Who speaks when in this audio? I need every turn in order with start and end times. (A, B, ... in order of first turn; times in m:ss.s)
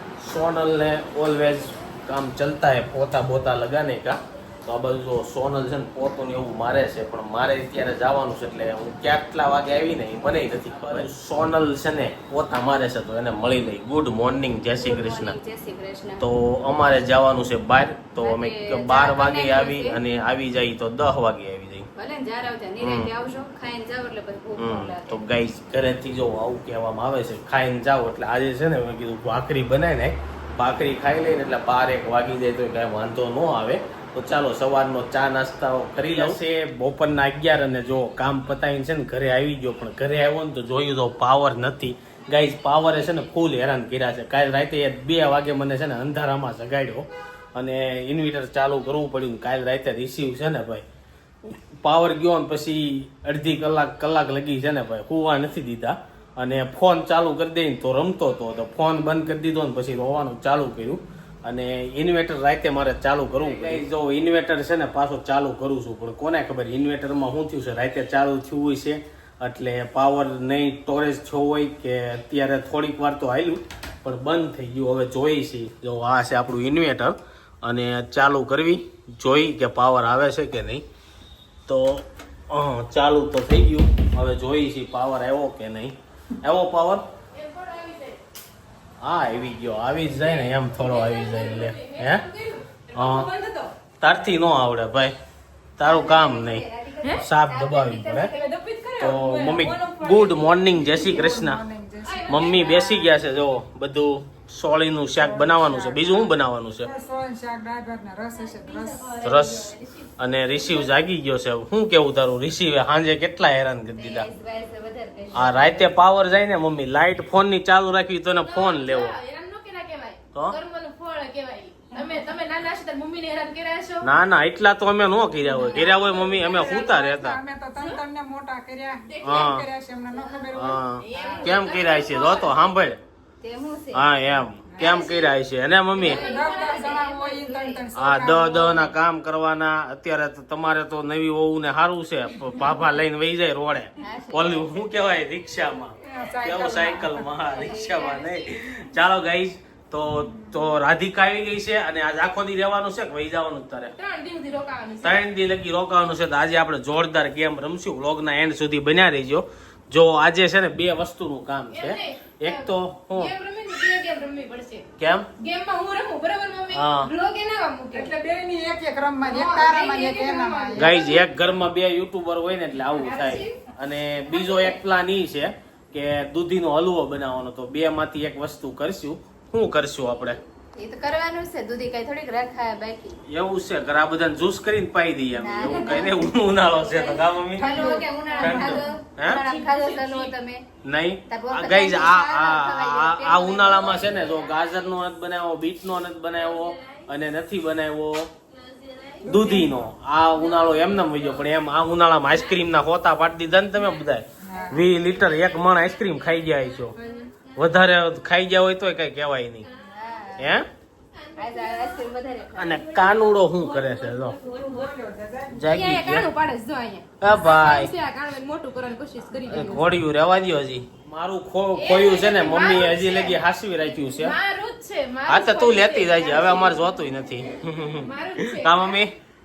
0:00.2-0:15.4 A
0:14.8-0:16.2 B
0:16.2-0:21.9 A
0:18.2-0:20.0 B
0:21.9-0:25.2 B
0:22.8-0:23.1 A
0:24.6-0:50.8 A
0:51.5-1:20.8 A
1:21.7-1:27.0 A
1:27.3-1:28.2 C
1:29.0-1:32.3 A
1:30.1-1:33.7 C
1:32.9-1:33.3 A
1:34.0-1:35.1 A
1:35.8-1:36.6 A
1:35.8-1:38.5 B
1:37.2-1:38.3 A
1:38.3-1:40.8 C
1:39.0-1:41.6 A
1:40.8-1:42.4 D
1:42.0-1:43.2 C
1:42.3-1:46.9 A
1:45.2-1:46.0 D
1:46.8-1:49.0 D
1:48.4-1:50.9 C
1:49.2-1:54.3 A
1:54.0-1:56.0 B
1:55.3-1:59.2 A
1:58.4-2:04.1 C
2:04.0-2:07.4 A
2:05.5-2:06.7 C
2:05.8-2:11.5 D
2:09.1-2:09.5 C
2:09.2-2:09.7 A
2:10.5-2:13.0 A
2:11.0-2:12.6 C
2:11.1-2:11.5 B
2:13.4-2:14.1 B
2:13.9-2:16.2 A
2:14.7-2:15.1 D
2:14.8-2:15.3 B
2:15.9-2:17.1 C
2:16.0-2:18.9 D
2:16.1-2:17.9 B
2:18.0-2:33.9 A
2:24.0-2:24.8 B
2:26.0-2:27.3 D
2:27.4-2:28.2 B
2:27.6-2:28.1 C
2:34.0-2:35.2 C
2:35.0-2:43.3 A
2:41.7-2:48.0 C
2:45.0-2:45.3 A
2:46.7-2:47.1 A
2:47.9-2:50.9 D
2:49.2-2:51.2 C
2:50.8-3:00.4 A
2:52.9-2:53.6 C
2:54.3-2:54.8 C
3:00.8-3:03.2 B
3:03.3-3:07.8 A
3:05.3-3:10.6 B
3:07.6-3:08.8 D
3:08.2-3:08.7 C
3:08.4-3:09.4 A
3:09.3-3:10.3 C
3:10.8-3:18.3 A
3:11.3-3:14.5 B
3:13.9-3:14.9 C
3:16.3-3:17.1 C
3:18.5-3:19.5 C
3:19.2-3:19.9 D
3:19.2-3:27.0 A
3:20.3-3:21.5 C
3:22.3-3:22.6 C
3:23.7-3:24.0 C
3:24.4-3:24.8 D
3:24.6-3:27.5 C
3:27.5-3:29.7 A
3:29.8-3:30.6 B
3:30.4-3:30.7 A
3:31.1-3:35.0 C
3:31.4-3:32.8 B
3:32.6-3:34.4 A
3:34.5-3:35.6 D
3:35.5-3:36.3 A
3:35.6-3:39.9 C
3:37.2-3:37.9 A
3:39.5-3:44.4 A
3:41.7-3:43.4 C
3:44.1-3:46.8 C
3:45.3-3:49.1 A
3:47.9-3:49.0 C